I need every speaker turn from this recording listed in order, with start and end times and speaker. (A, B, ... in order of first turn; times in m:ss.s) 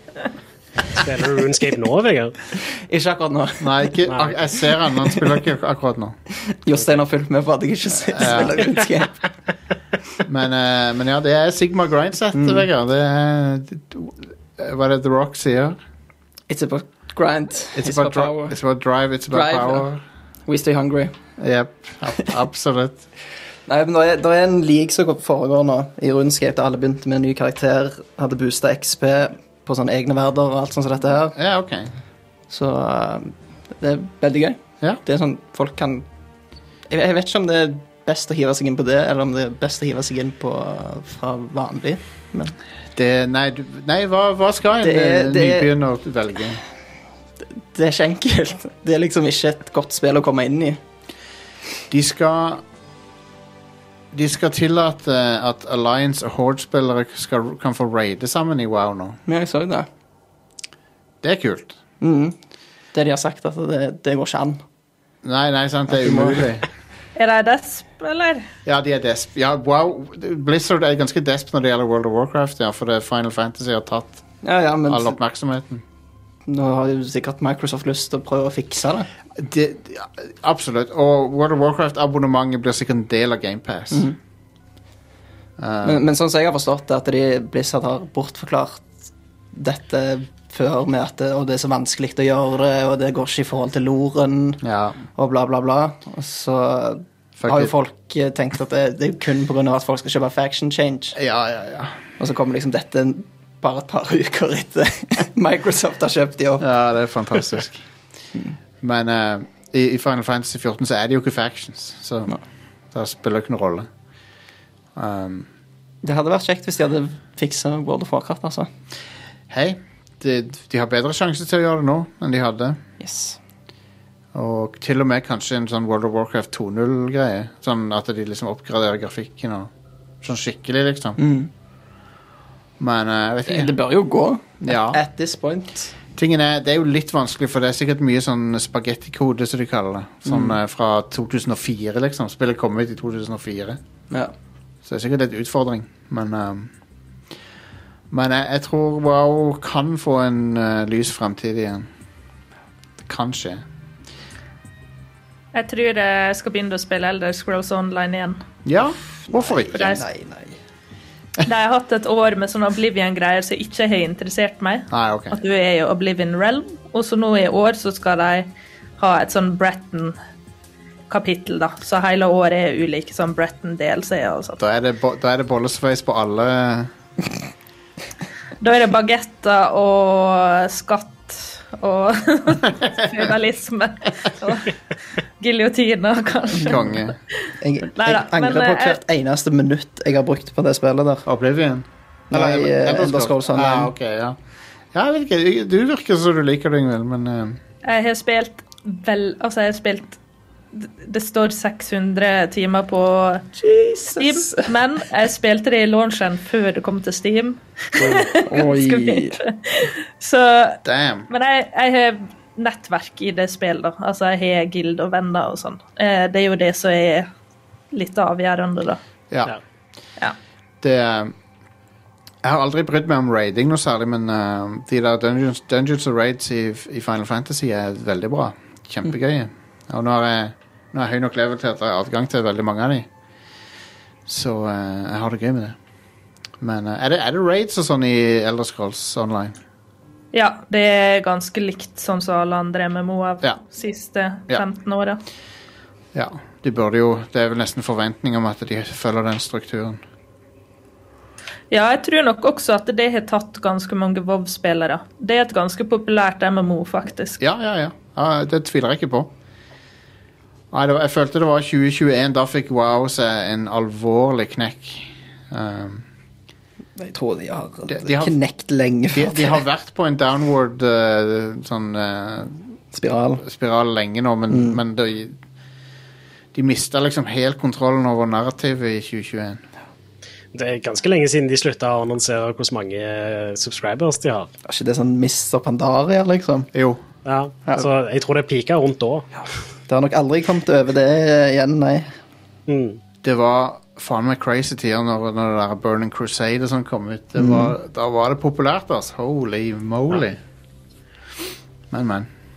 0:00.9-0:02.4 A
0:02.9-0:04.0 B
0:03.6-0:06.2 C
0:04.1-0:04.3 A
0:06.6-0:09.3 B
0:08.1-0:08.7 C
0:10.3-0:15.8 C
0:12.4-0:12.7 B
0:16.5-0:18.6 B
0:17.8-0:20.0 C
0:19.3-0:19.8 B
0:20.5-0:21.1 B
0:21.4-0:23.0 C
0:23.7-0:31.4 B
0:31.3-0:31.9 C
0:32.5-0:36.1 B
0:36.9-0:42.6 B
0:42.9-0:46.6 C
0:44.8-0:45.7 B
0:47.7-0:50.8 B
0:51.9-0:52.6 C
0:54.1-0:59.2 C
0:59.3-0:59.9 B
1:01.2-1:01.8 C
1:02.0-1:02.4 B
1:02.9-1:04.6 B
1:05.2-1:06.7 C
1:05.9-1:06.5 B
1:07.2-1:08.5 D
1:08.7-1:14.2 C
1:14.4-1:15.2 B
1:14.8-1:15.8 C
1:16.5-1:19.1 B
1:19.4-1:24.1 C
1:25.6-1:26.0 C
1:25.8-1:28.9 B
1:29.5-1:41.2 B
1:34.6-1:35.0 C
1:37.4-1:37.7 C
1:41.2-1:42.0 C
1:42.2-1:46.6 B
1:46.6-1:47.8 C
1:48.8-1:52.4 C
1:52.9-1:53.9 C
1:55.0-1:55.5 C
1:56.0-1:58.7 B
1:59.5-2:02.8 C
2:03.0-2:03.4 B
2:04.3-2:09.7 C
2:10.2-2:11.2 C
2:11.2-2:11.5 B
2:12.8-2:13.8 C
2:13.5-2:15.9 B
2:14.6-2:15.0 C
2:16.2-2:23.8 C
2:20.3-2:20.6 B
2:24.8-2:26.7 C
2:28.1-2:31.9 C
2:33.0-2:33.6 C
2:35.5-2:38.4 D
2:38.6-2:40.0 C
2:39.2-2:40.6 B
2:39.7-2:40.0 D
2:41.4-2:50.2 D
2:44.9-2:45.4 C
2:51.1-2:54.6 D
2:54.6-2:56.9 C
2:58.6-3:04.7 D
3:05.4-3:09.0 D
3:06.6-3:07.2 C
3:07.6-3:11.2 B
3:11.3-3:14.4 C
3:12.3-3:13.9 B
3:14.9-3:17.6 C
3:17.8-3:20.2 D
3:20.7-3:23.5 D
3:23.6-3:24.7 B
3:24.2-3:37.3 D
3:28.0-3:28.3 A
3:28.4-3:29.4 B
3:30.8-3:31.3 C
3:37.9-3:39.0 D
3:40.8-3:41.3 C
3:42.4-3:53.1 C
3:54.3-3:55.8 C
3:56.6-3:59.6 C
4:00.3-4:05.2 D
4:06.1-4:10.0 C
4:11.7-4:17.4 D
4:17.4-4:19.3 C
4:20.7-4:26.1 C
4:27.0-4:29.6 B
4:27.9-4:28.4 C
4:29.1-4:32.8 C
4:32.9-4:33.4 B
4:33.4-4:35.4 C
4:34.5-4:34.8 B
4:36.5-4:39.6 C
4:40.5-4:44.5 A
4:44.7-4:46.7 B
4:46.7-4:47.0 C
4:47.2-4:49.3 A
4:49.9-4:52.1 B
4:52.7-4:53.0 A
4:53.2-5:00.4 C
4:57.4-4:57.7 B
5:01.9-5:02.3 C